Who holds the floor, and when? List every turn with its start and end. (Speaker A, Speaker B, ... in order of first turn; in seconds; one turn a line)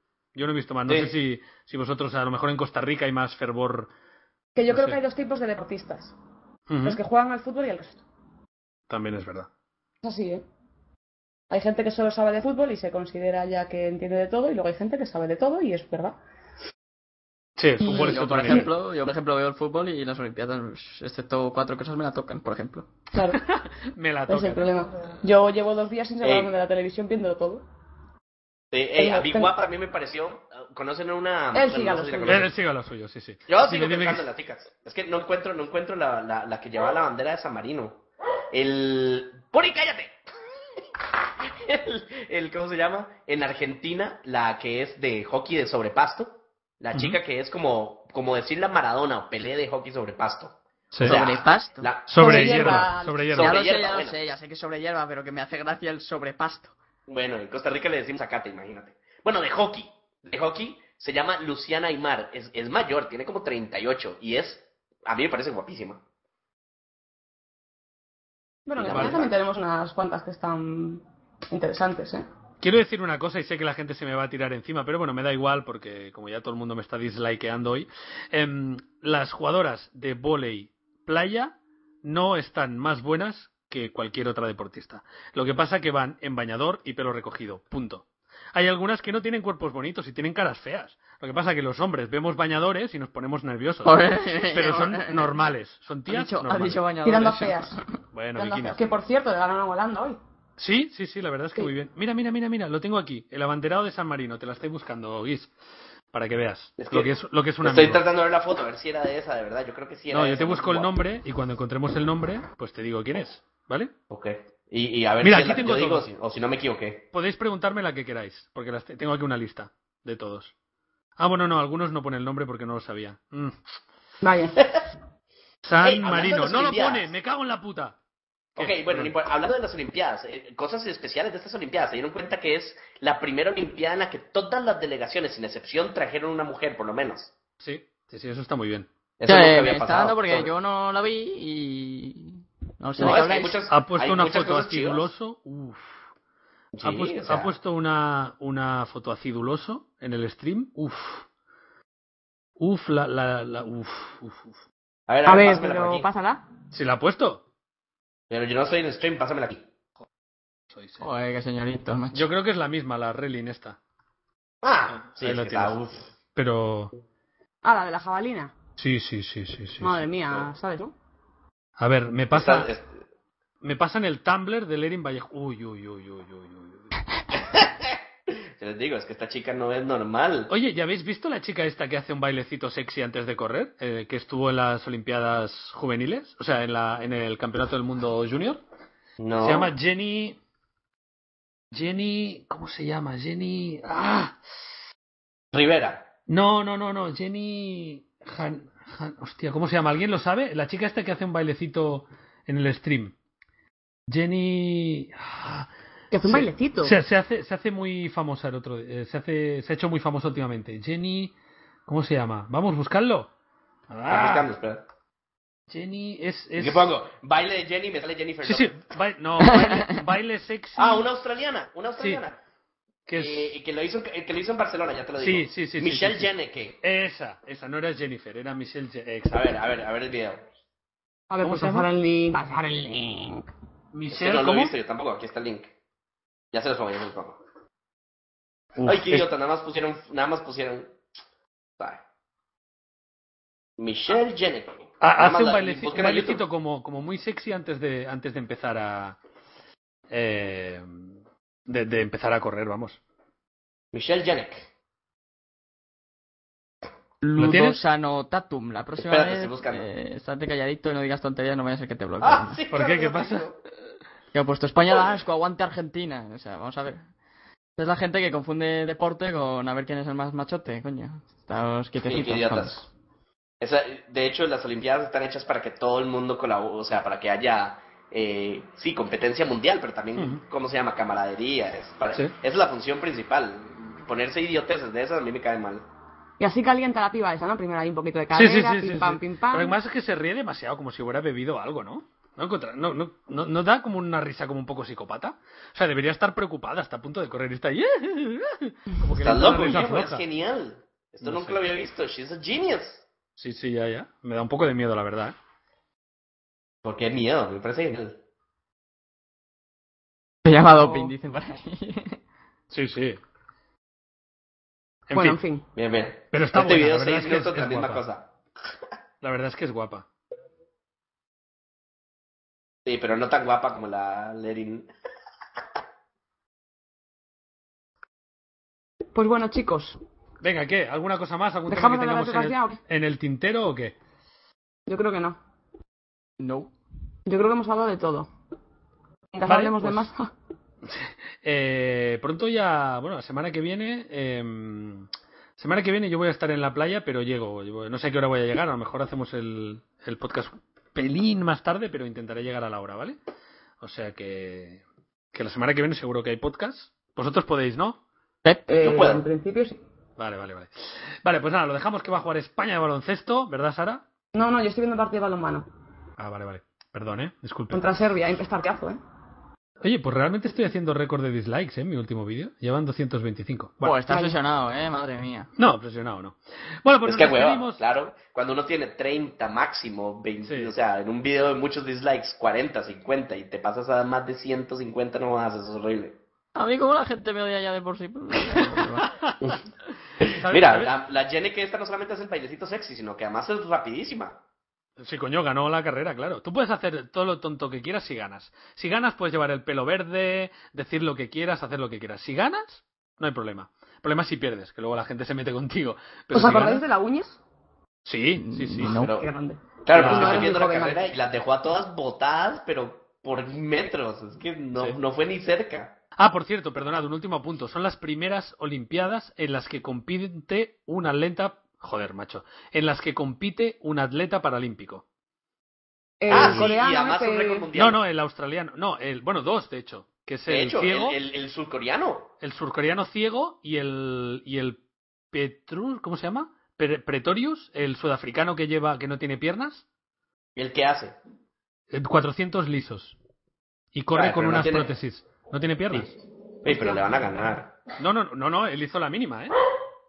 Speaker A: 0.3-3.9
Speaker B: 0.9-1.1
Speaker C: 4.5-6.1
Speaker A: 4.7-5.0
Speaker A: 6.7-7.0
Speaker C: 6.8-8.0
Speaker A: 8.9-9.5
Speaker C: 10.0-10.4
Speaker C: 11.5-16.2
Speaker A: 17.6-18.7
Speaker C: 17.8-18.7
Speaker D: 17.8-22.9
Speaker C: 23.1-23.4
Speaker A: 23.3-24.7
Speaker C: 24.3-27.6
Speaker B: 26.2-26.5
Speaker B: 28.7-32.5
Speaker C: 29.0-29.6
Speaker C: 31.5-32.5
Speaker A: 32.3-34.3
Speaker B: 33.5-40.2
Speaker B: 41.4-54.2
Speaker A: 50.9-51.2
Speaker D: 51.0-51.9
Speaker A: 52.1-53.5
Speaker C: 52.2-53.4
Speaker D: 53.4-56.7
Speaker B: 57.1-66.0
Speaker C: 68.7-72.3
Speaker B: 68.8-69.3
Speaker A: 68.9-69.2
Speaker A: 72.6-96.8
Speaker D: 93.8-95.3
Speaker D: 96.1-97.8
Speaker C: 97.0-97.8
Speaker A: 98.1-98.8
Speaker C: 98.3-100.2
Speaker A: 100.6-105.5
Speaker A: 106.1-108.0
Speaker B: 106.8-110.9
Speaker A: 110.1-113.9
Speaker B: 114.1-117.0
Speaker A: 115.2-116.1
Speaker A: 117.1-120.5
Speaker A: 121.2-123.5
Speaker C: 124.2-124.6
Speaker A: 125.7-128.0
Speaker B: 125.8-127.1
Speaker A: 128.6-129.1
Speaker B: 128.6-137.3
Speaker A: 137.6-138.9
Speaker B: 139.2-140.5
Speaker D: 139.3-143.6
Speaker B: 143.0-145.1
Speaker A: 143.0-146.0
Speaker B: 146.7-147.5
Speaker A: 146.8-151.2
Speaker A: 152.6-154.6
Speaker B: 155.1-156.1
Speaker C: 155.3-156.5
Speaker A: 156.7-157.4
Speaker B: 158.3-159.7
Speaker A: 160.7-161.0
Speaker D: 161.0-162.2
Speaker A: 162.1-163.8
Speaker B: 164.6-166.1
Speaker A: 164.9-165.8
Speaker A: 166.3-166.9
Speaker C: 167.6-168.5
Speaker A: 168.8-170.0
Speaker C: 169.8-170.9
Speaker A: 171.8-172.7
Speaker B: 172.3-173.0
Speaker A: 173.6-176.9
Speaker B: 177.3-180.5
Speaker A: 180.5-188.6
Speaker B: 189.2-189.7
Speaker A: 189.4-190.4
Speaker A: 191.7-194.4
Speaker B: 195.5-196.1
Speaker A: 196.3-203.1
Speaker A: 204.1-205.7
Speaker C: 206.1-206.9
Speaker A: 206.2-211.3
Speaker A: 211.9-213.3
Speaker A: 213.9-214.5
Speaker B: 214.1-214.8
Speaker A: 215.7-216.9
Speaker B: 216.6-218.8
Speaker A: 218.4-221.1
Speaker D: 219.4-220.0
Speaker B: 220.8-222.4
Speaker A: 223.1-223.6
Speaker B: 223.2-226.8
Speaker A: 225.2-226.3
Speaker A: 226.8-229.6
Speaker B: 229.3-230.4
Speaker C: 231.3-233.5
Speaker A: 231.4-231.9
Speaker A: 233.9-234.7
Speaker B: 234.1-235.7
Speaker B: 236.5-237.4
Speaker A: 238.8-239.3
Speaker B: 238.8-240.9
Speaker B: 243.8-246.4
Speaker A: 245.0-249.2
Speaker A: 250.1-251.0
Speaker A: 251.7-253.0
Speaker B: 253.9-254.7
Speaker D: 257.2-262.6
Speaker A: 257.4-257.8
Speaker B: 259.0-259.9
Speaker B: 262.2-263.6
Speaker A: 262.7-263.5
Speaker D: 264.3-267.1
Speaker D: 267.8-272.9
Speaker B: 272.1-272.8
Speaker B: 273.6-285.9
Speaker C: 286.4-289.8
Speaker A: 288.3-300.2
Speaker B: 299.2-303.1
Speaker A: 301.2-301.6
Speaker A: 303.4-305.4
Speaker B: 306.8-308.2
Speaker D: 310.4-312.2
Speaker C: 310.8-311.1
Speaker A: 312.7-313.2
Speaker A: 315.1-315.4
Speaker C: 315.1-315.6
Speaker B: 315.8-318.3
Speaker A: 316.3-318.0
Speaker A: 319.2-320.1
Speaker B: 322.9-324.9
Speaker C: 329.1-330.0
Speaker A: 330.4-333.9
Speaker C: 331.7-332.8
Speaker C: 334.9-335.4
Speaker D: 336.4-336.7
Speaker C: 337.3-338.3
Speaker C: 339.3-340.3
Speaker A: 339.5-340.1
Speaker A: 340.9-353.2
Speaker A: 353.8-358.0
Speaker C: 358.7-359.8
Speaker B: 358.8-359.2
Speaker A: 360.2-364.0
Speaker C: 364.3-365.7
Speaker A: 366.2-367.8
Speaker C: 367.7-369.0
Speaker A: 369.8-374.0
Speaker D: 373.8-375.5
Speaker C: 374.1-374.4
Speaker A: 375.6-377.8
Speaker B: 377.0-386.2
Speaker A: 380.5-380.7
Speaker D: 386.6-389.1
Speaker B: 390.2-394.4
Speaker A: 390.4-390.9
Speaker A: 395.0-406.8
Speaker C: 406.3-407.4
Speaker A: 408.1-409.0
Speaker D: 408.5-409.1
Speaker B: 408.8-409.3
Speaker C: 409.1-411.1
Speaker B: 409.8-416.0
Speaker A: 409.9-410.6
Speaker A: 416.2-425.0
Speaker C: 426.2-427.7
Speaker A: 426.3-426.6
Speaker B: 426.3-428.0
Speaker A: 427.8-431.2
Speaker B: 430.5-432.3
Speaker A: 432.4-434.8
Speaker A: 435.3-439.9
Speaker B: 440.6-441.2
Speaker A: 441.9-443.2
Speaker A: 443.9-446.1
Speaker B: 444.1-444.9
Speaker B: 446.6-447.8
Speaker A: 446.7-447.0
Speaker A: 448.0-449.6